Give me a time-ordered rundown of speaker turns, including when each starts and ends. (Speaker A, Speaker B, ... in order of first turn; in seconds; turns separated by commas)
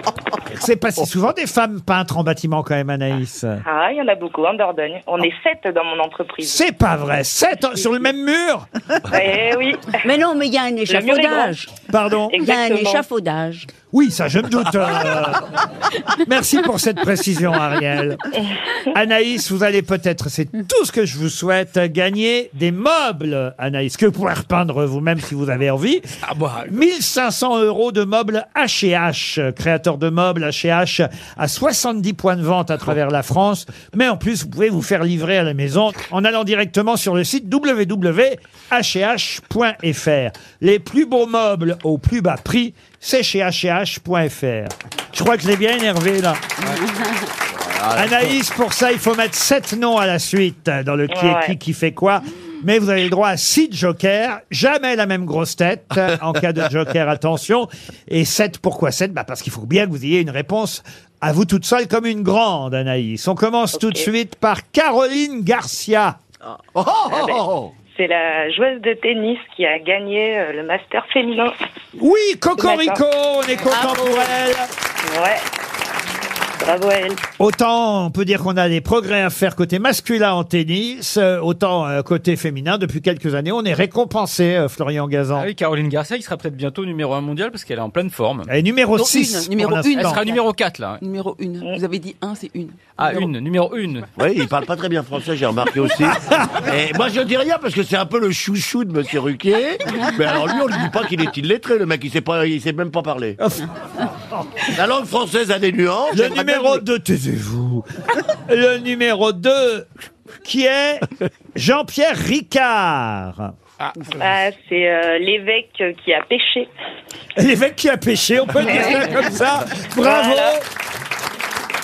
Speaker A: 0.5-3.6, Speaker B: 3.6-6.6, Speaker A: 6.4-8.7, Speaker B: 9.1-10.0, Speaker C: 10.0-11.7, Speaker B: 10.9-11.6, Speaker A: 11.8-12.4, Speaker B: 12.3-13.0, Speaker C: 12.4-13.7, Speaker A: 13.9-15.6, Speaker A: 16.2-18.2, Speaker A: 18.9-26.1, Speaker D: 26.3-26.7, Speaker A: 26.6-46.4, Speaker D: 47.6-48.3, Speaker A: 47.9-66.2, Speaker B: 51.1-51.6, Speaker B: 63.7-64.1, Speaker E: 66.7-67.7, Speaker B: 67.1-71.5, Speaker A: 72.0-74.7, Speaker B: 72.6-73.0, Speaker C: 73.7-74.3, Speaker B: 75.1-75.4, Speaker B: 76.6-77.2, Speaker A: 77.4-85.5, Speaker D: 85.4-88.5, Speaker A: 88.5-90.2, Speaker F: 88.9-93.3, Speaker D: 89.9-91.0, Speaker D: 93.0-94.1, Speaker E: 94.2-103.4, Speaker A: 96.0-96.6, Speaker A: 103.4-103.7, Speaker E: 104.7-106.6, Speaker A: 106.1-109.9, Speaker A: 110.4-113.5, Speaker B: 114.2-116.7, Speaker A: 117.4-120.6, Speaker B: 120.0-120.6